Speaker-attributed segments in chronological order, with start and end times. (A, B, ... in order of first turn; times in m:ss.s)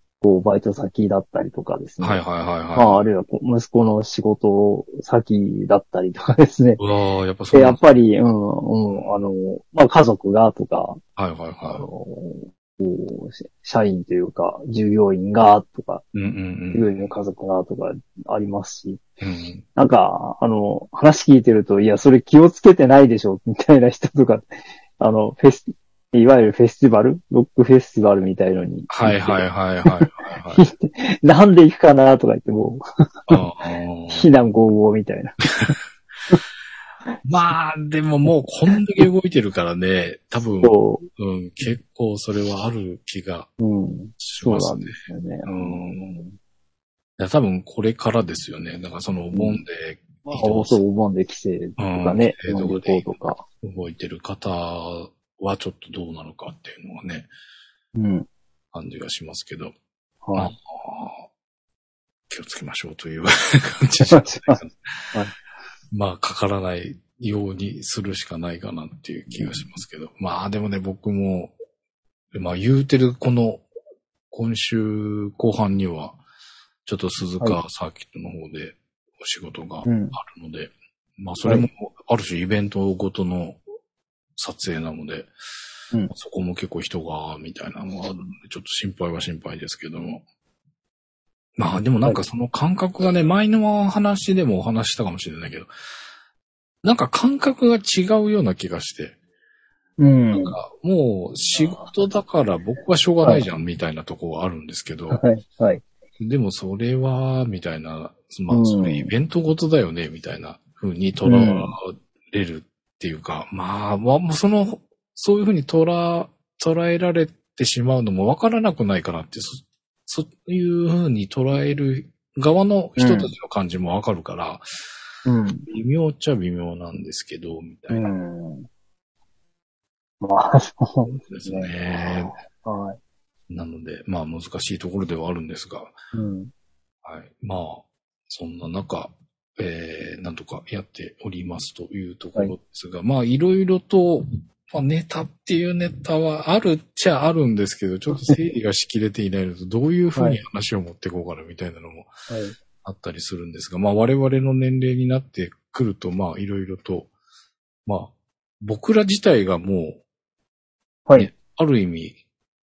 0:00.2-0:02.2 A
0:02.0-0:03.1 B
0:02.8-0:06.8 A
0:06.8-0:07.8 B
0:07.5-0:11.0 A
0:08.9-0:09.2 B
0:11.2-0:11.9 B
0:11.7-0:16.0 A
0:16.1-0:16.9 B
0:16.7-0:19.0 A
0:19.2-0:19.6 B
0:19.8-0:24.5 A
0:25.0-0:33.4 A
0:28.9-0:30.6 B
0:33.3-0:34.3 B
0:34.1-0:35.4 A
0:37.2-0:43.5 B
0:40.6-0:41.1 A
0:43.6-0:46.4 A
0:44.2-0:46.2 B
0:47.2-0:50.8 B
0:49.3-0:49.6 A
0:50.2-0:53.4 A
0:51.8-0:53.1 B
0:53.6-0:57.3 B
0:58.0-0:58.3 A
0:58.7-0:59.7 B
1:00.2-1:00.5 A
1:00.3-1:01.2 B
1:02.3-1:04.8 B
1:04.0-1:04.6 A
1:05.9-1:11.5 B
1:09.3-1:09.7 A
1:12.3-1:13.6 B
1:14.3-1:16.2 B
1:16.8-1:23.6 B
1:19.8-1:20.2 A
1:24.4-1:25.3 B
1:26.1-1:30.2 B
1:31.6-1:35.7 B
1:36.8-1:39.1 B
1:40.0-1:40.6 A
1:40.3-1:45.2 B
1:45.1-1:45.8 A
1:46.2-2:04.6 B
1:48.5-1:49.1 A
1:51.2-1:51.7 A
2:03.0-2:03.3 A
2:05.2-2:05.7 A
2:05.7-2:08.1 B
2:07.9-2:08.7 A
2:10.2-2:13.0 A
2:11.0-2:12.3 B
2:13.5-2:15.9 B
2:16.1-2:16.5 A
2:17.0-2:32.1 B
2:30.2-2:30.4 A
2:32.3-2:32.6 A
2:32.8-2:37.1 B
2:37.9-2:40.0 B
2:41.2-2:42.2 B